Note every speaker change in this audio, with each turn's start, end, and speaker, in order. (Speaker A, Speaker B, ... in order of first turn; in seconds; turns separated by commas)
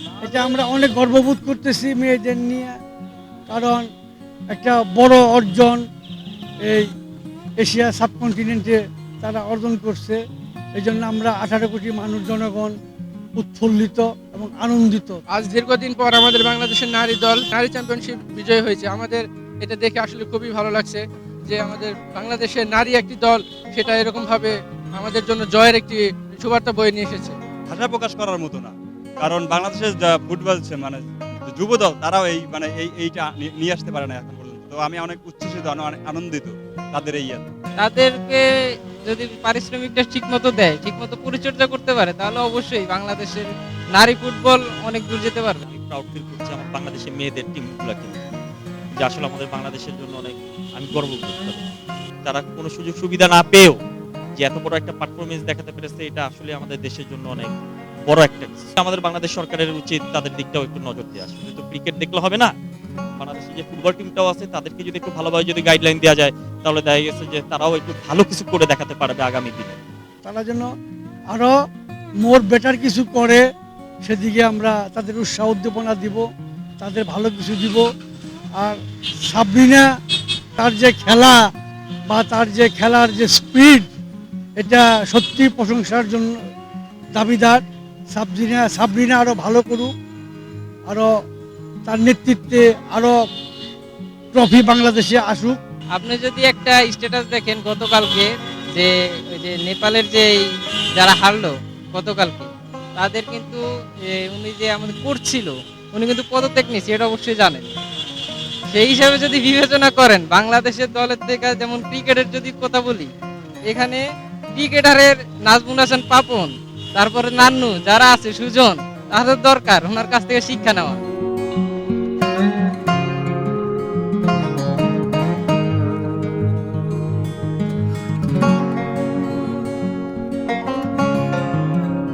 Speaker A: 0.2-2.7, Speaker A: 3.5-3.9, Speaker A: 4.5-5.8, Speaker A: 7.6-10.2, Speaker A: 10.8-12.8, Speaker A: 13.4-15.2, Speaker B: 15.3-27.3, Speaker C: 27.7-37.5, Speaker D: 37.8-38.4, Speaker D: 39.1-45.6, Speaker E: 45.6-48.2, Speaker E: 49.0-51.7, Speaker E: 52.2-53.8, Speaker E: 54.4-57.5, Speaker E: 58.1-62.5, Speaker E: 63.2-69.8, Speaker A: 70.2-70.7, Speaker A: 71.3-71.6, Speaker A: 72.2-73.4, Speaker A: 74.0-76.2, Speaker A: 76.8-77.9, Speaker A: 79.3-79.9, Speaker A: 80.6-81.4, Speaker A: 82.1-83.9, Speaker A: 84.6-86.3, Speaker A: 87.2-89.9, Speaker A: 91.9-93.2, Speaker A: 94.3-95.6, Speaker D: 96.0-100.5, Speaker D: 101.0-107.7, Speaker D: 108.7-113.1, Speaker D: 113.7-114.0, Speaker D: 114.5-121.0